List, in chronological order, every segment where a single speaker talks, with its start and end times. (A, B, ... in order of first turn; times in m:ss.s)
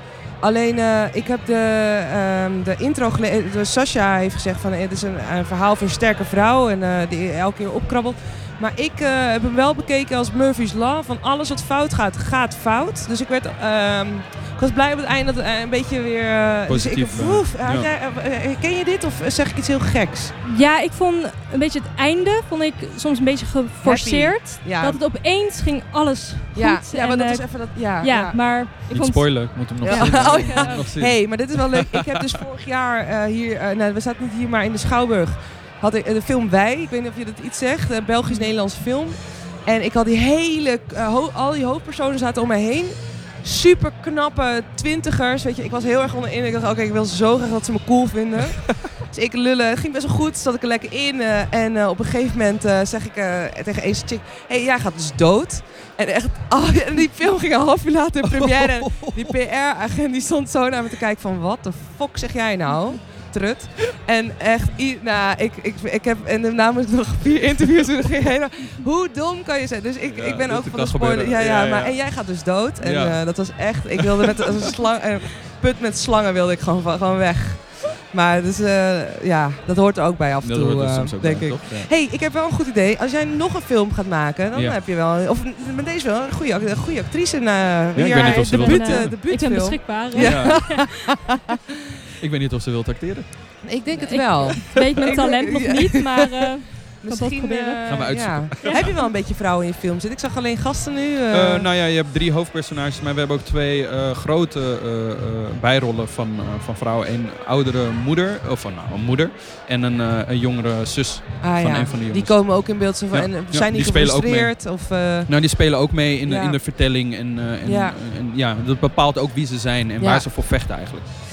0:00.4-0:20.3 A
0:16.7-0:17.9 B
0:20.4-0:30.9 C
0:23.8-0:25.0 A
0:26.5-0:28.4 A
0:28.9-0:32.2 B
0:29.8-1:31.7 A
0:58.2-0:59.4 B
1:10.1-1:12.0 B
1:12.8-1:13.2 B
1:14.0-1:14.7 B
1:20.4-1:21.9 B
1:27.9-1:29.1 B
1:28.1-1:30.9 C
1:30.2-1:30.7 B
1:32.2-1:33.3 B
1:33.6-1:36.4 A
1:34.0-1:38.9 C
1:37.0-1:41.7 A
1:37.9-1:39.0 B
1:41.3-2:01.0 B
1:51.4-1:55.3 A
1:56.2-1:56.6 A
1:57.6-1:58.0 A
2:00.0-2:00.3 A